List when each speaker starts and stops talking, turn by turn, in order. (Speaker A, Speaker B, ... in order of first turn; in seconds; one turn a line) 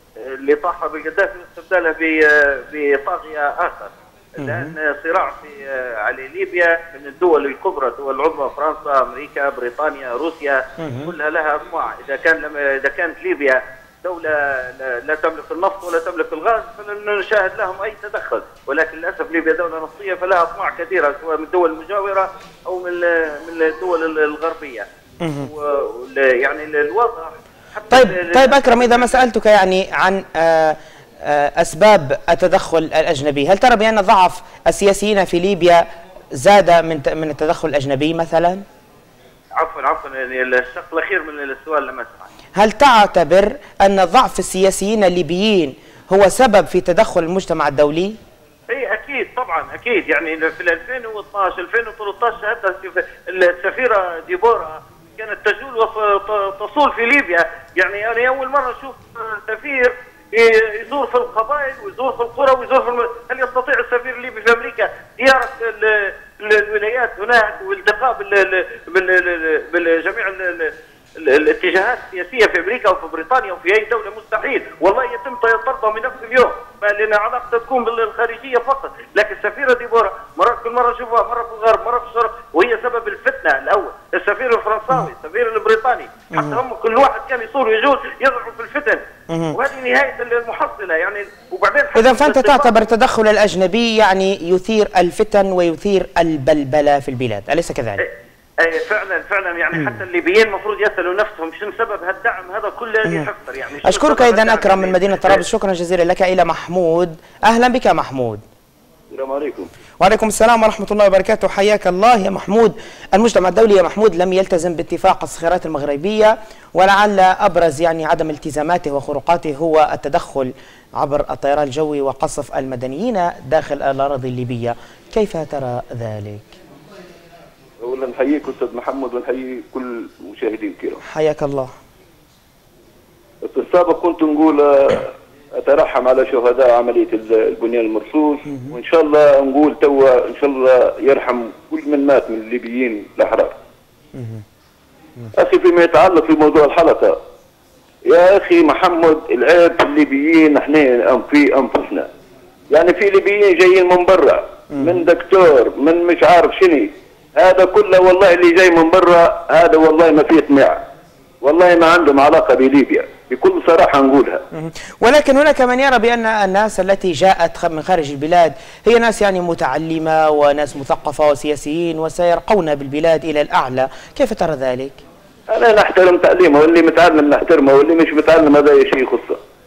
Speaker A: 0.2-29.3
Speaker B: 4.4-4.7
Speaker B: 10.8-11.1
Speaker B: 25.2-25.5
Speaker B: 27.9-35.8
Speaker B: 36.3-38.6
Speaker A: 39.5-42.3
Speaker B: 42.6-48.2
Speaker A: 48.7-92.8
Speaker B: 86.3-86.6
Speaker B: 89.3-89.6
Speaker B: 92.0-98.0
Speaker A: 98.0-105.5
Speaker B: 103.8-108.4
Speaker C: 109.1-109.7
Speaker B: 110.0-126.5
Speaker C: 127.8-131.0
Speaker B: 131.1-131.7
Speaker C: 133.5-143.6
Speaker C: 145.3-147.2
Speaker C: 148.1-152.1
Speaker C: 152.7-160.9
Speaker C: 161.4-164.4
Speaker B: 164.5-175.0
Speaker C: 175.5-179.4